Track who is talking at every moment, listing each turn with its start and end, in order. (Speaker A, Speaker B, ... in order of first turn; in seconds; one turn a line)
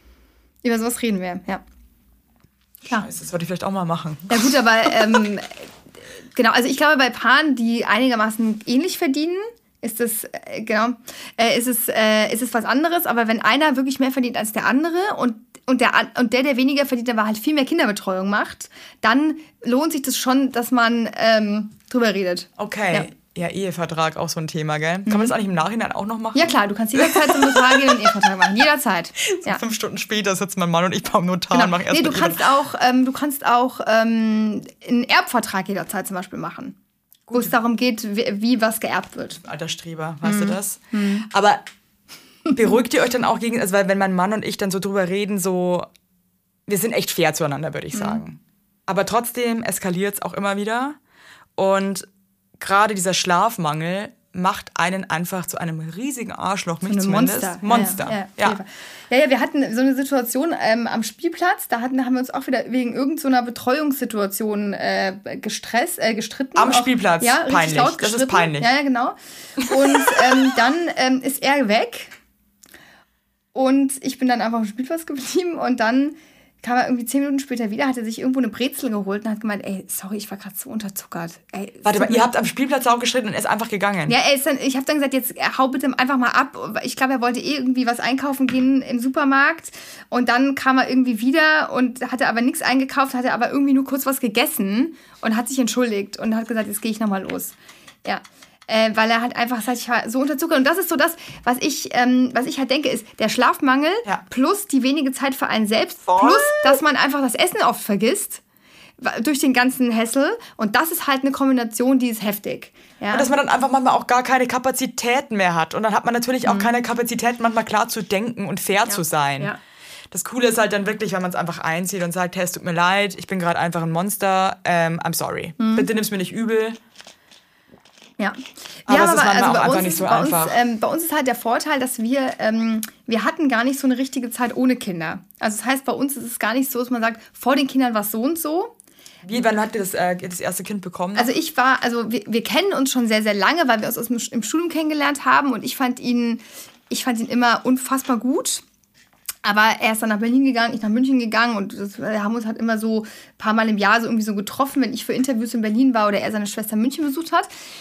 Speaker A: 0.6-1.6
Speaker B: 2.9-4.4
Speaker A: 4.3-5.7
Speaker A: 6.3-23.1
Speaker B: 22.6-28.2
Speaker A: 25.1-25.3
Speaker A: 26.3-29.6
Speaker B: 29.4-32.5
Speaker A: 31.5-36.8
Speaker B: 37.3-37.5
Speaker A: 37.3-39.4
Speaker B: 39.4-41.6
Speaker A: 40.2-41.3
Speaker B: 42.5-45.9
Speaker B: 46.7-51.0
Speaker A: 47.9-48.2
Speaker B: 51.6-52.1
Speaker B: 52.6-58.6
Speaker A: 56.9-72.1
Speaker B: 66.6-68.7
Speaker A: 73.5-82.3
Speaker B: 81.8-84.2
Speaker A: 84.1-108.4
Speaker B: 106.1-106.8
Speaker A: 109.0-113.3
Speaker B: 113.1-119.5
Speaker A: 118.9-119.6
Speaker B: 120.1-126.8
Speaker A: 125.6-125.9
Speaker A: 128.2-138.7
Speaker B: 128.9-130.6
Speaker B: 139.2-141.3
Speaker A: 141.2-148.6
Speaker A: 149.4-157.5